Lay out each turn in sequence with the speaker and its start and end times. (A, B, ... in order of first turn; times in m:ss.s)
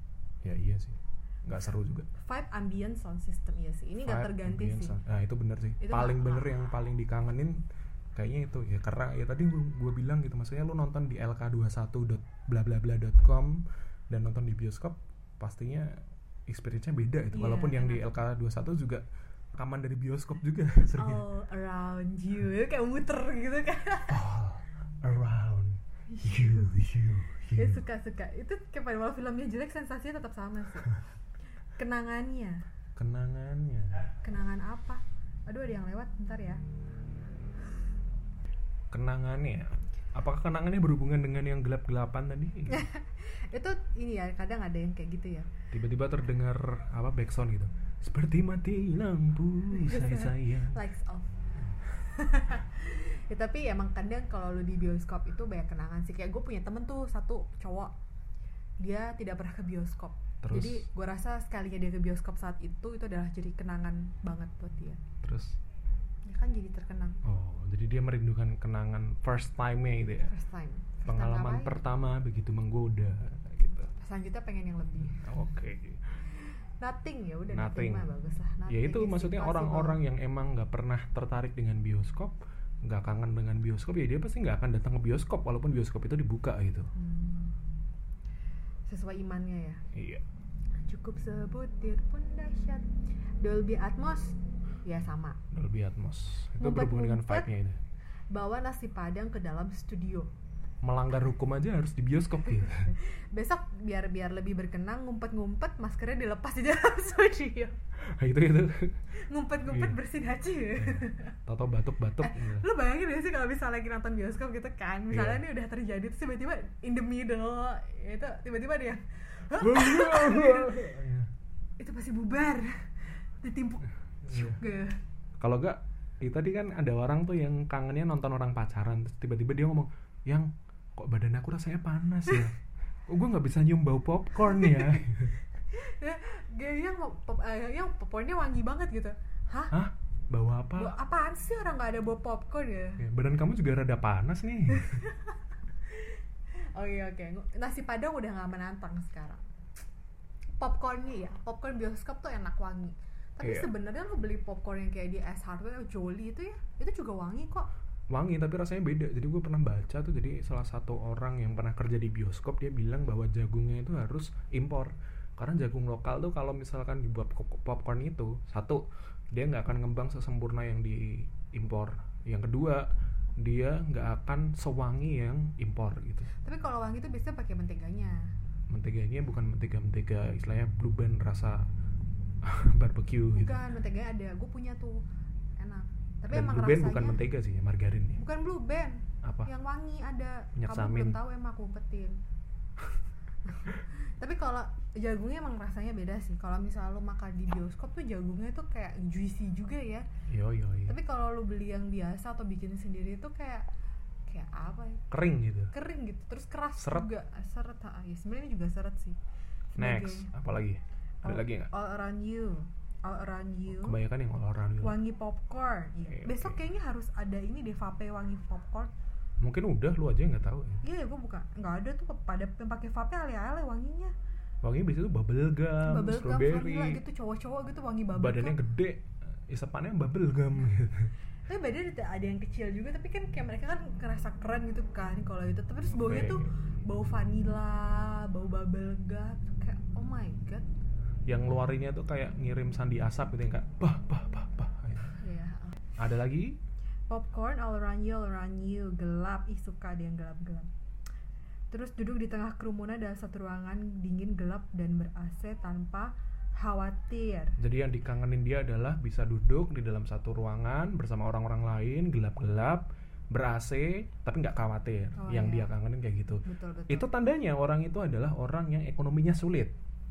0:00.4-0:02.1 A
0:02.2-0:05.0 B
0:04.0-0:07.6 A
0:05.8-0:06.6 B
0:08.1-0:19.0 A
0:17.3-0:18.1 B
0:19.6-0:21.2 A
0:20.9-0:24.2 B
0:24.1-0:27.8 A
0:26.1-0:26.7 B
0:27.5-0:31.0 B
0:31.8-0:32.6 B
0:33.0-0:34.1 A
0:34.2-0:36.6 B
0:38.9-0:42.8 A
0:42.7-0:45.5 B
0:45.7-0:50.8 A
0:49.7-0:51.4 B
0:51.9-0:57.9 B
0:58.8-1:05.0 B
1:00.4-1:00.9 A
1:05.2-1:05.6 A
1:06.2-1:07.2 B
1:07.2-1:10.3 A
1:10.3-1:11.8 B
1:11.0-1:13.9 A
1:14.0-1:15.2 B
1:15.0-1:16.2 A
1:16.8-1:20.0 B
1:17.5-1:18.1 A
1:18.7-1:26.9 A
1:26.9-1:27.6 B
1:28.9-1:29.8 B
1:29.9-1:30.2 A
1:30.8-1:32.9 B
1:33.4-1:35.4 B
1:35.5-1:37.8 A
1:36.6-1:37.5 B
1:38.3-1:40.3 B
1:40.8-1:42.9 A
1:42.6-1:47.8 B
1:48.1-1:49.0 A
1:49.2-1:51.4 B
1:49.6-1:50.0 A
1:50.8-1:52.7 A
1:52.2-2:01.0 B
1:55.1-1:55.4 A
1:59.6-2:01.3 A
2:01.8-2:05.0 B
2:04.2-2:04.6 A
2:05.4-2:12.6 A
2:13.1-2:15.4 A
2:14.4-2:15.0 B
2:15.7-2:19.7 B
2:19.7-2:20.9 A
2:20.8-2:23.0 B
2:23.0-2:25.0 A
2:24.7-2:29.4 B
2:30.6-2:37.7 B
2:33.4-2:33.7 A
2:38.1-2:52.9 A
2:53.4-2:56.3 A
2:56.4-2:58.3 B
2:58.7-3:01.6 A
3:02.4-3:03.6 A
3:03.3-3:05.0 B
3:05.6-3:07.2 B
3:06.3-3:08.2 A
3:08.2-3:12.2 B
3:09.2-3:09.5 A
3:10.5-3:11.2 A
3:13.4-3:20.1 B
3:20.3-3:21.0 A
3:20.9-3:23.6 B
3:24.3-3:25.1 B
3:25.1-3:25.7 A
3:25.7-3:29.2 B
3:26.8-3:27.1 A
3:29.7-3:30.3 B
3:29.8-3:31.7 A
3:31.2-3:34.0 B
3:33.7-3:35.0 A
3:34.8-3:38.9 B
3:36.1-3:36.6 A
3:39.4-3:40.8 A
3:40.8-3:44.1 B
3:44.6-3:47.0 A
3:45.8-3:48.6 B
3:48.1-3:51.1 A
3:51.5-4:00.7 B
3:55.9-3:56.5 A
4:01.3-4:05.2 A
4:05.2-4:05.8 B
4:05.9-4:06.6 A
4:07.1-4:10.7 B
4:11.7-4:17.6 B
4:17.6-4:29.7 A
4:25.2-4:25.7 B
4:26.4-4:27.1 B